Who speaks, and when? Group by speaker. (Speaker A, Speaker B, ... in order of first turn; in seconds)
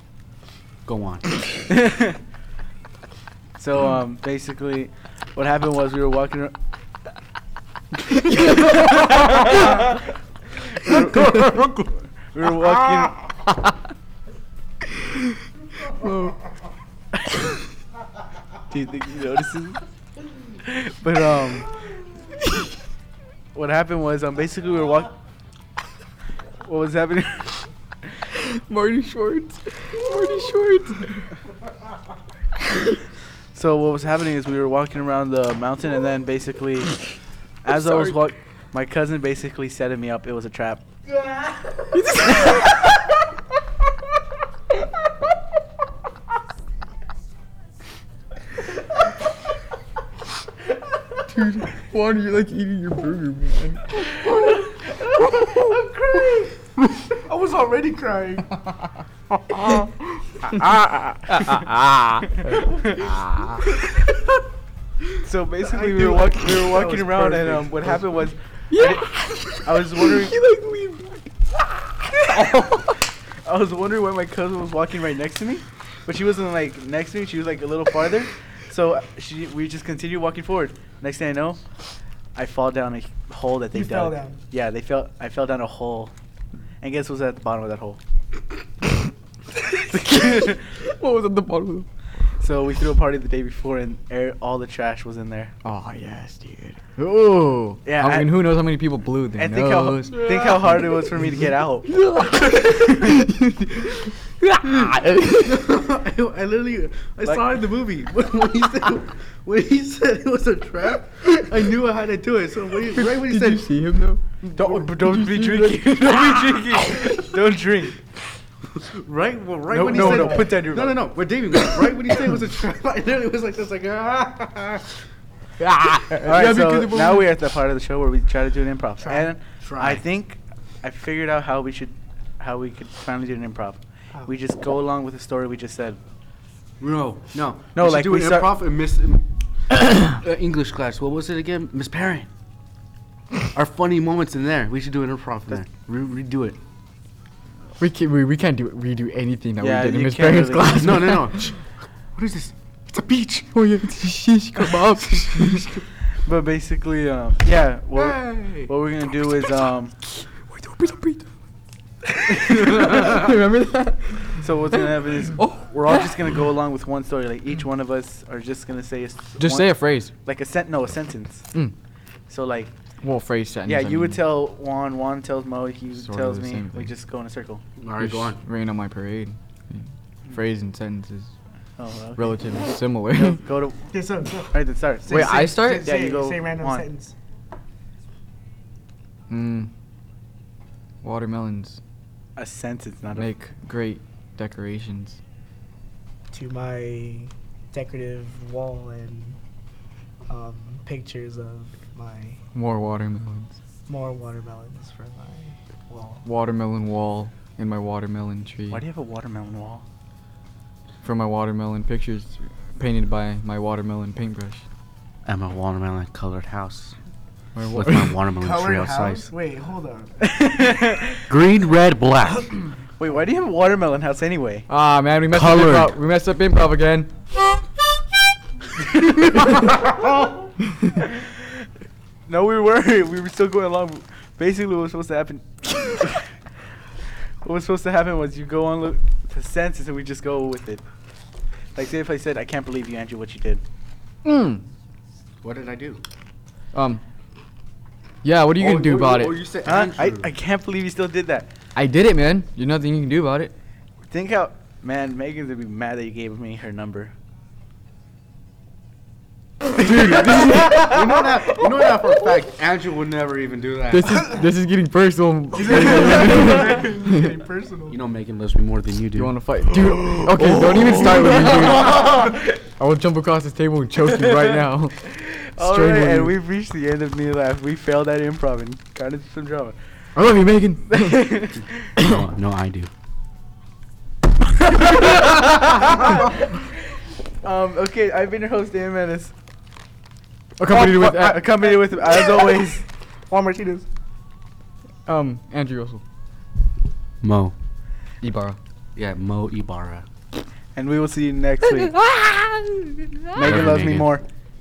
Speaker A: 0.8-1.4, 10.9-11.9, 105.4-113.7, 118.7-124.9, 129.6-130.0, 136.8-139.2, 140.0-142.3, 143.5-146.6, 150.8-151.6, 152.2-153.6, 154.8-155.8, 157.9-158.7, 177.8-178.4, 215.2-216.9, 217.7-219.3, 221.3-222.5, 225.3-225.9, 245.4-246.0, 248.6-250.3, 260.6-264.2, 267.9-269.3, 282.0-282.9, 297.2-297.5, 298.9-300.1, 303.4-304.1
Speaker B: 1.7-2.2, 3.6-6.5, 8.2-10.0, 10.8-11.5, 12.3-13.2, 18.7-19.8, 20.6-21.7, 23.5-25.1, 26.6-27.7, 33.5-37.0, 37.6-40.8, 54.2-56.5, 62.4-63.1, 65.2-70.3, 72.4-72.8, 73.4-81.6, 82.3-86.1, 86.8-88.0, 89.9-90.7, 92.4-95.5, 97.8-98.5, 99.3-102.0, 102.7-103.2, 114.5-118.0, 119.7-121.0, 126.2-136.0, 137.7-138.5, 149.6-151.1, 156.1-159.9, 164.4-171.5, 172.3-172.7, 173.7-177.6, 181.8-184.0, 184.5-186.8, 192.4-193.3, 208.7-209.8, 220.2-221.2, 223.0-224.7, 230.9-231.6, 232.3-236.3, 237.4-240.8, 241.7-243.6, 249.6-251.5, 254.1-257.1, 271.5-272.4, 274.1-279.8, 280.9-281.9, 284.6-286.7, 287.4-289.3, 290.7-292.8, 300.7-302.0, 303.3-304.2
Speaker C: 16.0-16.4, 28.3-31.3, 37.7-38.2, 41.9-42.7, 51.3-54.3, 61.3-63.6, 68.7-72.9, 90.0-91.9, 95.6-105.6, 112.9-117.2, 125.6-127.3, 147.8-151.3, 153.5-155.7, 160.0-161.3, 162.2-164.8, 165.3-166.1, 169.4-170.1, 173.0-174.2, 176.0-176.9, 178.0-181.3, 182.2-183.4, 185.1-185.9, 189.3-189.7, 191.0-191.8, 193.2-195.2, 202.5-203.5, 206.2-208.8, 211.0-214.6, 217.5-218.2, 224.7-227.1, 244.2-244.6, 246.7-247.0, 248.2-249.4, 251.7-253.5, 259.8-260.9, 263.9-267.2, 269.1-275.0, 275.6-276.3, 280.1-282.2, 290.6-291.5, 295.1-296.0, 298.2-298.6, 301.7-303.6
Speaker D: 57.1-58.7, 65.6-68.0, 83.7-84.4, 119.8-120.3, 183.9-187.1, 196.3-199.4, 200.3-202.4, 203.9-206.2, 218.3-220.1, 265.5-267.9, 290.7-292.7, 293.3-293.9